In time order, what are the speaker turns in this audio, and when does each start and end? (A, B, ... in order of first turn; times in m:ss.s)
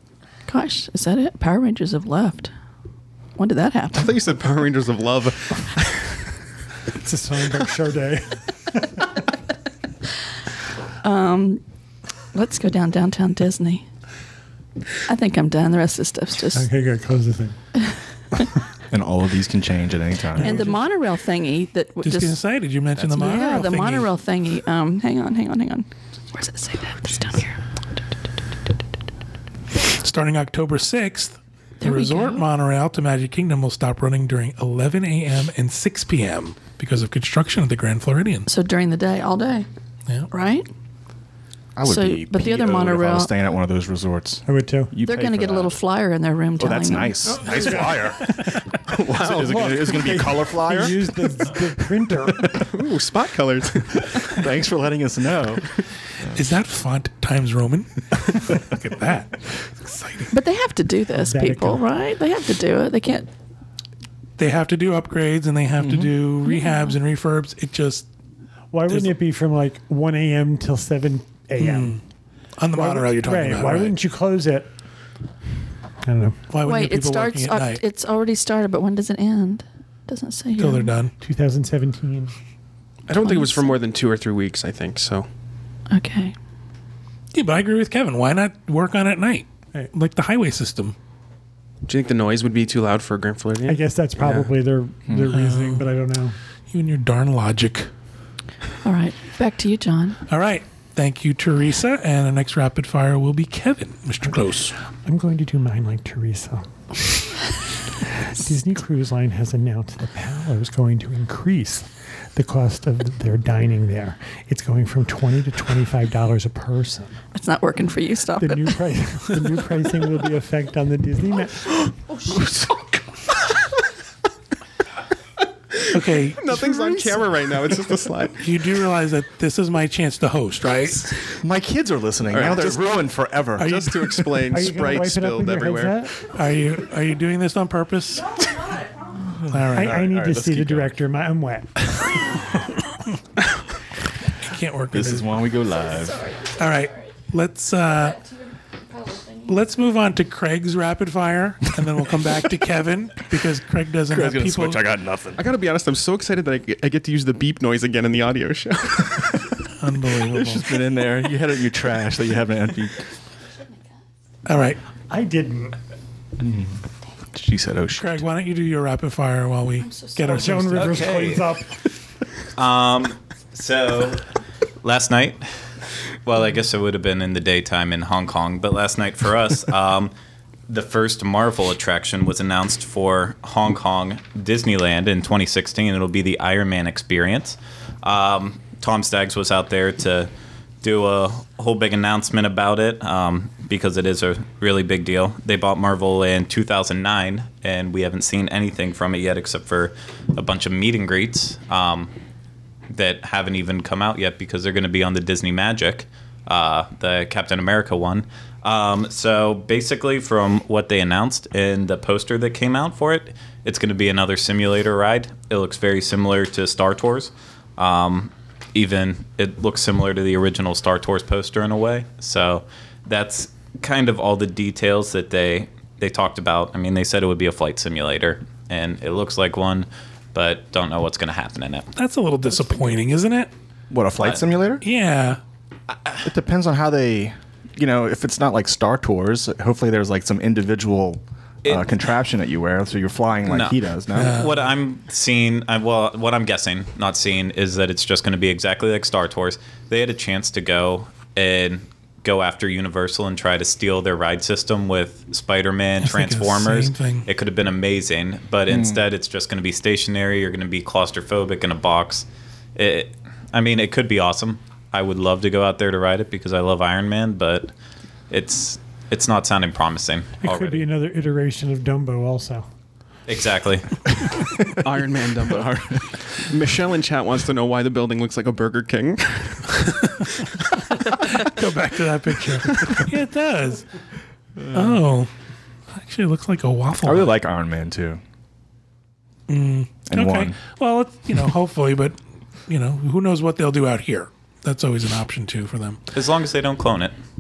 0:00.5-0:02.5 A
0:03.4-0:04.2 A
0:03.9-0:06.3 B
0:07.0-0:09.0 C
0:11.0-0:11.6 A
0:12.3-0:13.9 A
0:15.0-0:16.7 A
0:16.5-0:17.8 C
0:18.9-0:20.6 D
0:20.4-0:20.8 E
0:20.4-0:22.4 A
0:22.0-0:24.1 E
0:23.0-0:23.4 D
0:23.1-0:28.0 A
0:30.0-0:38.5 E
0:31.8-0:32.4 A
0:38.5-0:39.7 A
0:40.3-0:40.7 A
0:41.8-0:45.8 D
0:41.8-0:43.3 A
0:44.5-0:44.9 C
0:45.0-0:47.5 A
0:46.6-0:51.6 D
0:47.3-0:48.2 C
0:49.1-0:50.9 B
0:49.3-0:52.6 C
0:52.6-0:54.4 B
0:54.3-0:56.4 D
0:56.3-1:00.3 E
1:00.3-1:03.3 A
1:01.1-1:01.8 C
1:04.4-1:08.1 E
1:05.8-1:06.1 D
1:06.5-1:07.0 A
1:08.7-1:12.1 C
1:08.9-1:09.2 E
1:11.6-1:14.0 E
1:12.8-1:14.7 C
1:16.0-1:16.4 C
1:16.5-1:17.8 E
1:16.6-1:21.0 A
1:20.6-1:21.1 E
1:21.2-1:22.4 C
1:23.1-1:25.3 B
1:23.2-1:23.8 A
1:25.9-1:26.4 A
1:27.3-1:31.0 E
1:31.9-1:34.5 B
1:33.6-1:36.4 C
1:35.3-1:35.9 E
1:36.7-1:37.9 E
1:38.8-1:40.2 A
1:40.3-1:44.7 E
1:45.0-1:47.1 C
1:48.2-1:57.2 C
1:57.3-1:59.4 A
1:58.4-2:01.8 C
2:05.7-2:08.5 B
2:05.9-2:07.0 E
2:08.4-2:11.2 E
2:11.4-2:14.2 D
2:12.3-2:16.0 B
2:13.6-2:13.9 E
2:14.5-2:16.2 C
2:16.3-2:18.4 E
2:19.2-2:21.0 D
2:19.5-2:20.0 E
2:19.8-2:22.4 C
2:24.4-2:25.3 E
2:24.9-2:26.3 D
2:26.5-2:28.3 E
2:29.4-2:34.8 E
2:34.1-2:35.4 D
2:35.4-2:39.5 B
2:39.8-2:40.8 E
2:40.3-2:43.0 D
2:44.5-2:44.8 E
2:45.1-2:45.8 C
2:46.4-2:46.8 D
2:47.3-2:48.2 D
2:48.0-2:51.3 E
2:49.8-2:50.6 A
2:50.3-2:51.8 C
2:50.8-2:51.5 F
2:52.6-2:54.3 F
2:54.8-3:00.1 F
3:00.7-3:10.3 F
3:10.8-3:22.1 F
3:22.9-3:51.9 F
3:52.0-3:53.5 E
3:53.9-3:54.8 D
3:54.8-3:55.4 E
3:56.2-4:04.4 D
4:03.5-4:27.7 F
4:04.2-4:04.6 E
4:16.0-4:17.3 E
4:18.7-4:19.0 D
4:28.3-4:30.9 F
4:30.4-4:32.6 C
4:33.3-4:34.1 F
4:34.8-4:40.0 B
4:35.5-4:36.0 D
4:41.2-4:43.9 E
4:44.6-4:44.9 D
4:44.7-4:45.3 E
4:45.9-4:47.3 E
4:47.0-4:48.2 D
4:49.5-4:56.0 E
4:50.1-4:50.6 D
4:56.1-4:57.1 F